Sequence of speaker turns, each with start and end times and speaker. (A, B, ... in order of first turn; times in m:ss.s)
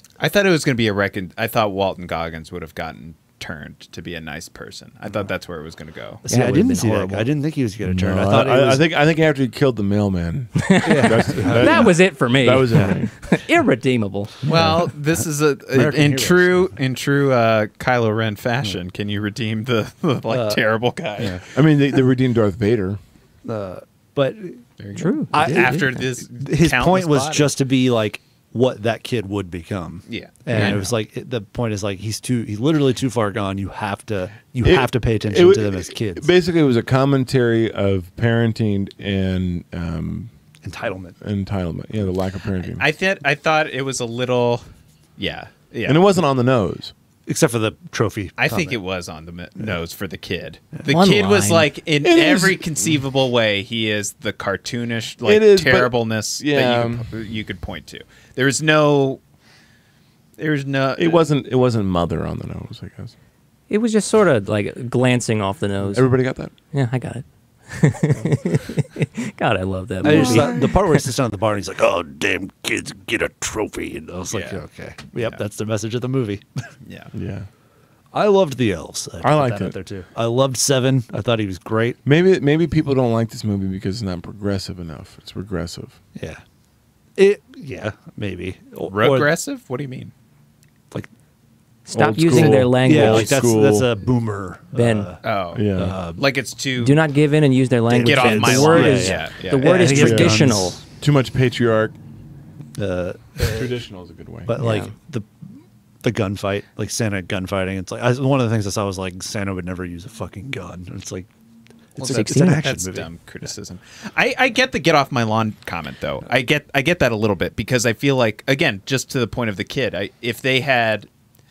0:00.2-0:06.2 A
0:06.2-0:08.8 B
0:06.3-0:07.3 C
0:07.8-0:13.1 D
0:10.6-0:14.4 C
0:10.8-0:12.0 B
0:14.5-0:16.8 B
0:14.5-0:21.4 A
0:14.5-0:14.8 D
0:20.3-0:20.6 B
0:21.2-0:21.4 B
0:21.5-0:23.0 D
0:23.4-0:24.6 B
0:24.8-0:27.5 A
0:25.0-0:25.8 C
0:25.3-0:36.3 B
0:30.1-0:30.9 A
0:34.6-0:40.3 D
0:40.6-0:41.2 B
0:41.2-0:42.9 D
0:42.7-0:44.6 A
0:45.2-0:46.0 A
0:45.8-0:46.9 D
0:47.3-0:48.8 B
0:48.4-0:59.2 A
0:50.8-0:51.7 C
0:52.0-0:52.9 D
0:55.2-0:57.1 D
1:00.4-1:01.2 A
1:01.0-1:03.1 D
1:03.7-1:06.1 C
1:05.8-1:06.5 D
1:06.7-1:11.0 C
1:10.0-1:16.7 B
1:10.0-1:10.7 D
1:14.3-1:14.6 A
1:16.9-1:17.1 A
1:17.1-1:17.5 D
1:18.1-1:22.0 B
1:19.2-1:19.8 D
1:22.0-1:26.0 D
1:26.2-1:26.4 B
1:27.2-1:29.3 B
1:28.9-1:30.1 A
1:31.9-1:33.9 D
1:31.9-1:33.4 C
1:32.3-1:35.2 B
1:34.7-1:35.1 C
1:35.2-1:37.0 A
1:35.5-1:36.0 D
1:35.8-1:36.2 B
1:36.8-1:40.8 C
1:37.9-1:40.8 B
1:38.0-1:39.9 A
1:39.9-1:42.0 D
1:42.8-1:43.7 B
1:43.4-1:44.5 D
1:44.5-1:45.3 B
1:44.6-1:44.9 C
1:46.0-1:51.3 B
1:52.0-1:53.1 B
1:52.0-2:01.1 A
1:52.0-1:52.6 C